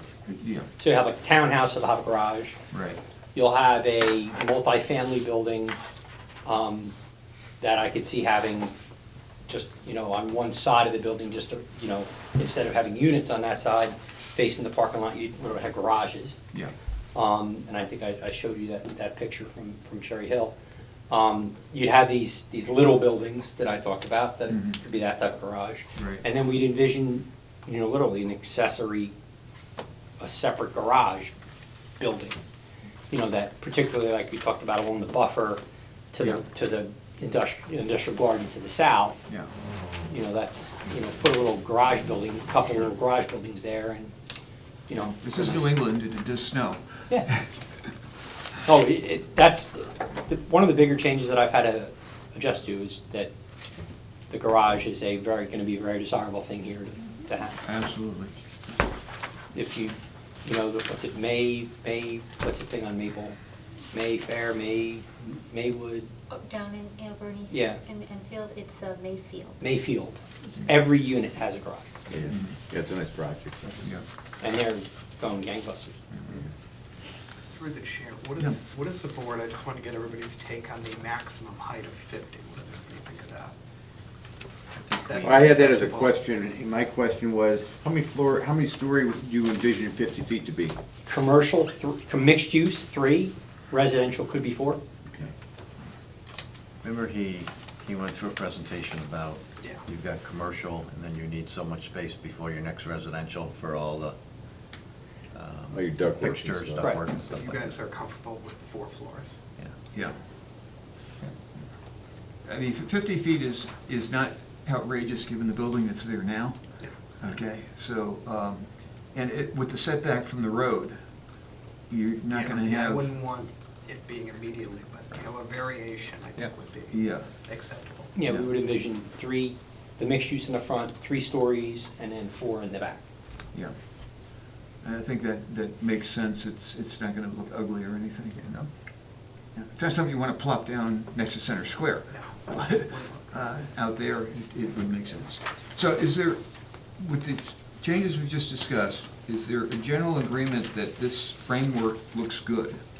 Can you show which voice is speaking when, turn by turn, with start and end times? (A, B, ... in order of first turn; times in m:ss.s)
0:00.3-0:00.7 A
0:00.8-0:02.6 B
0:02.7-0:03.0 A
0:03.4-0:05.8 B
0:06.4-0:06.9 B
0:07.6-0:08.7 B
0:09.5-0:16.4 B
0:17.1-0:20.6 B
0:21.1-0:29.1 B
0:24.5-0:24.8 A
0:26.0-0:26.2 A
0:30.2-0:31.3 B
0:32.0-0:32.4 B
0:33.1-0:35.6 B
0:36.1-0:39.2 B
0:40.1-0:44.1 B
0:44.9-0:45.8 B
0:45.2-0:47.5 A
0:48.6-0:53.3 B
0:54.3-0:57.6 B
0:57.6-0:58.4 A
0:59.5-1:03.4 B
1:03.9-1:06.1 B
1:06.3-1:09.7 C
1:07.5-1:07.8 B
1:09.6-1:11.9 B
1:12.1-1:13.8 D
1:12.3-1:12.6 A
1:14.4-1:16.0 B
1:17.5-1:23.6 E
1:25.0-1:26.2 E
1:25.2-1:30.8 D
1:31.1-1:34.8 B
1:36.8-1:44.2 F
1:45.3-1:47.8 F
1:45.7-1:47.0 D
1:47.1-1:49.4 E
1:52.4-2:01.0 A
2:01.9-2:03.1 A
2:02.3-2:08.1 E
2:06.4-2:07.3 A
2:08.1-2:13.0 B
2:08.2-2:08.5 A
2:14.8-2:18.7 A
2:19.5-2:32.8 A
2:22.1-2:23.3 E